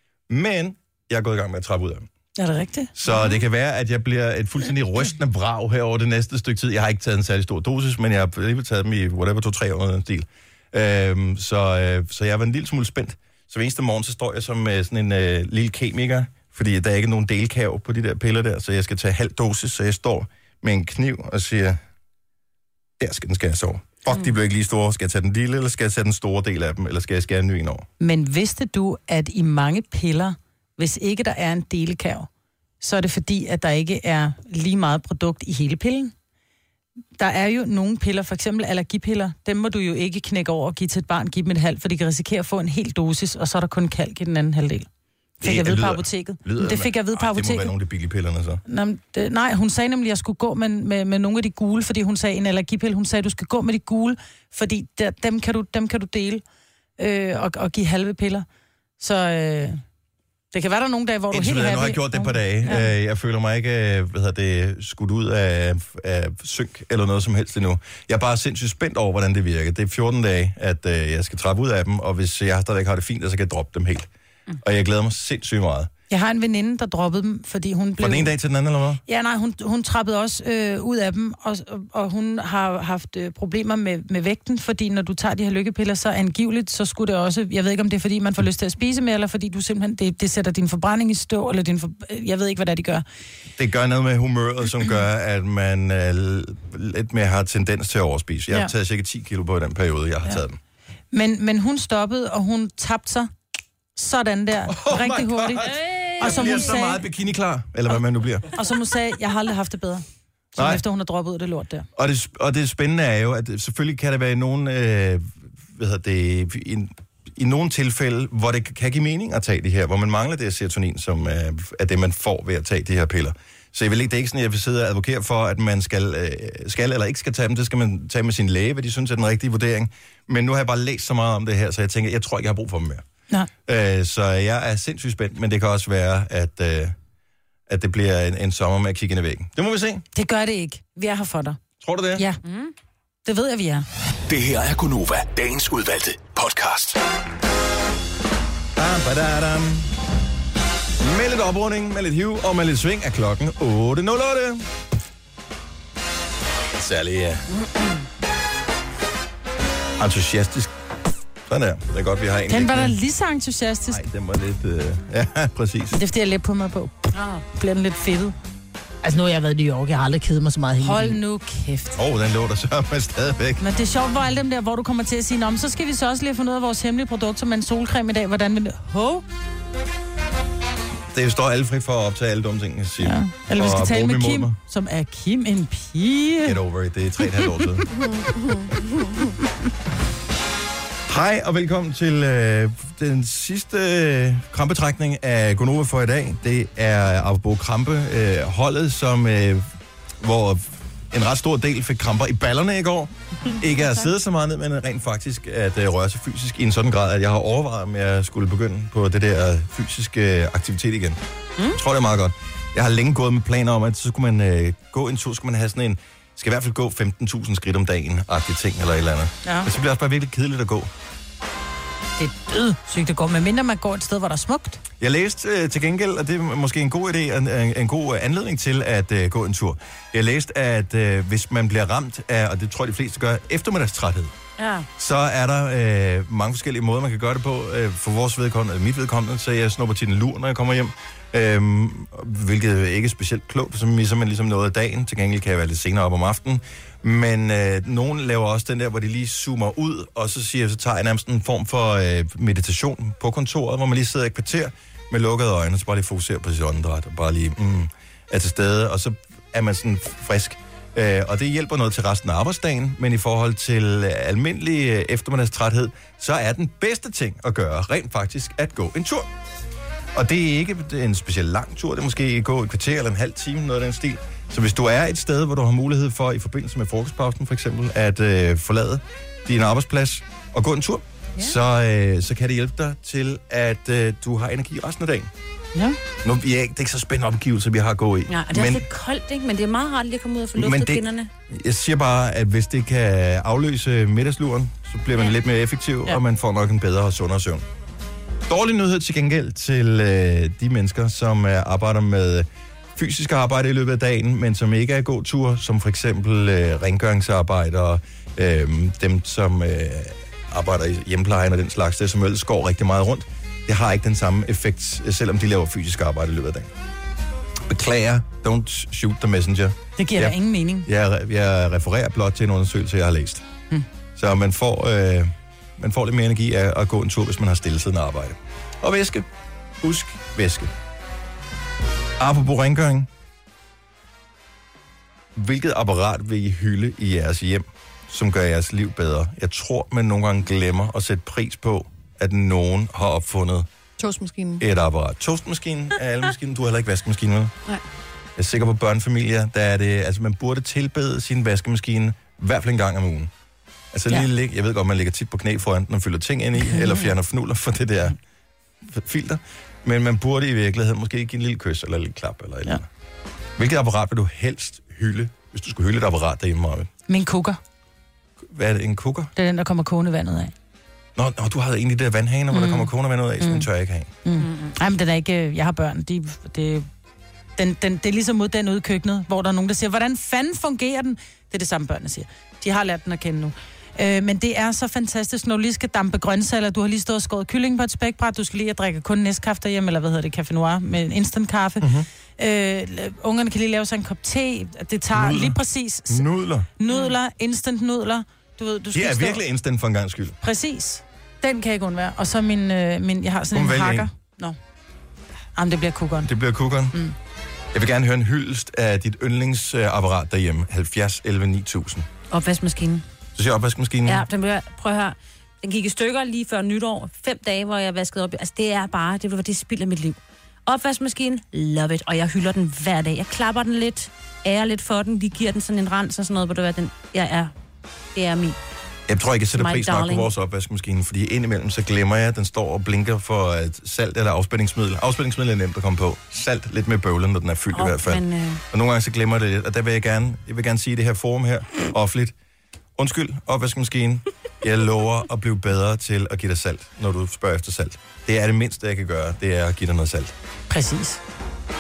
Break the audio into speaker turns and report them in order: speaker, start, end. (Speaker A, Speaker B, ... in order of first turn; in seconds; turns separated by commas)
Speaker A: 0.3-2.1, Speaker B: 2.4-2.9, Speaker A: 3.0-21.8, Speaker A: 23.0-27.9, Speaker B: 28.0-32.3, Speaker B: 32.8-36.1, Speaker B: 37.2-44.9, Speaker B: 45.4-47.7, Speaker A: 45.4-48.6, Speaker B: 48.7-56.4, Speaker B: 57.0-58.5, Speaker B: 59.0-59.8, Speaker B: 60.5-62.9, Speaker A: 61.3-74.1, Speaker A: 74.6-75.9, Speaker B: 76.1-78.3, Speaker A: 78.0-79.0, Speaker B: 79.1-93.0, Speaker A: 93.6-100.6, Speaker B: 101.1-103.3, Speaker B: 104.0-107.0, Speaker A: 104.7-108.5, Speaker C: 105.6-106.8, Speaker B: 108.5-111.9, Speaker A: 110.5-110.8, Speaker A: 112.0-133.0, Speaker A: 133.7-136.9, Speaker A: 137.7-140.0, Speaker B: 140.1-141.6, Speaker A: 141.8-142.3, Speaker C: 142.4-142.7, Speaker B: 143.2-143.8, Speaker D: 144.3-147.0, Speaker A: 148.8-149.9, Speaker A: 151.0-154.7, Speaker A: 156.7-157.4, Speaker A: 160.0-160.7, Speaker A: 161.5-163.0, Speaker B: 162.5-164.0, Speaker A: 163.9-166.0, Speaker B: 165.9-168.3, Speaker C: 167.1-167.4, Speaker C: 169.0-171.2, Speaker B: 170.8-172.0, Speaker A: 171.9-173.6, Speaker B: 173.6-179.2, Speaker A: 181.1-184.6, Speaker B: 183.0-186.6, Speaker A: 186.4-187.9, Speaker E: 187.9-189.3, Speaker A: 191.1-199.7, Speaker A: 200.2-211.2, Speaker A: 211.7-220.9, Speaker B: 222.2-224.8, Speaker A: 225.0-234.3, Speaker C: 234.6-234.9, Speaker A: 235.0-269.3, Speaker A: 270.1-285.3, Speaker A: 286.2-288.8, Speaker C: 288.3-291.3, Speaker A: 290.5-297.6, Speaker A: 298.5-316.7, Speaker A: 317.6-323.4, Speaker B: 320.0-320.9, Speaker A: 324.1-329.3, Speaker A: 329.8-330.7, Speaker A: 332.2-333.1, Speaker A: 335.3-343.7, Speaker E: 344.0-344.6, Speaker A: 344.6-347.5, Speaker A: 348.4-353.3, Speaker A: 353.9-358.2, Speaker A: 358.8-362.9, Speaker A: 363.6-366.9, Speaker B: 367.1-367.6, Speaker A: 368.5-369.3, Speaker B: 369.4-370.5, Speaker A: 371.1-374.1, Speaker B: 372.5-372.9, Speaker B: 373.4-373.6, Speaker B: 374.2-376.9, Speaker C: 374.4-374.7, Speaker B: 377.6-396.2, Speaker A: 391.8-392.1, Speaker A: 395.1-396.7, Speaker B: 396.8-399.4, Speaker A: 398.9-400.4, Speaker B: 400.4-404.6, Speaker A: 403.5-404.1, Speaker B: 405.5-406.3, Speaker A: 406.2-406.9, Speaker A: 407.7-412.1, Speaker C: 412.3-413.0, Speaker A: 413.3-414.2, Speaker C: 414.1-427.5, Speaker C: 428.1-428.6, Speaker A: 429.1-442.3, Speaker C: 429.5-430.3, Speaker C: 437.7-438.6, Speaker A: 443.0-450.3, Speaker B: 450.7-451.2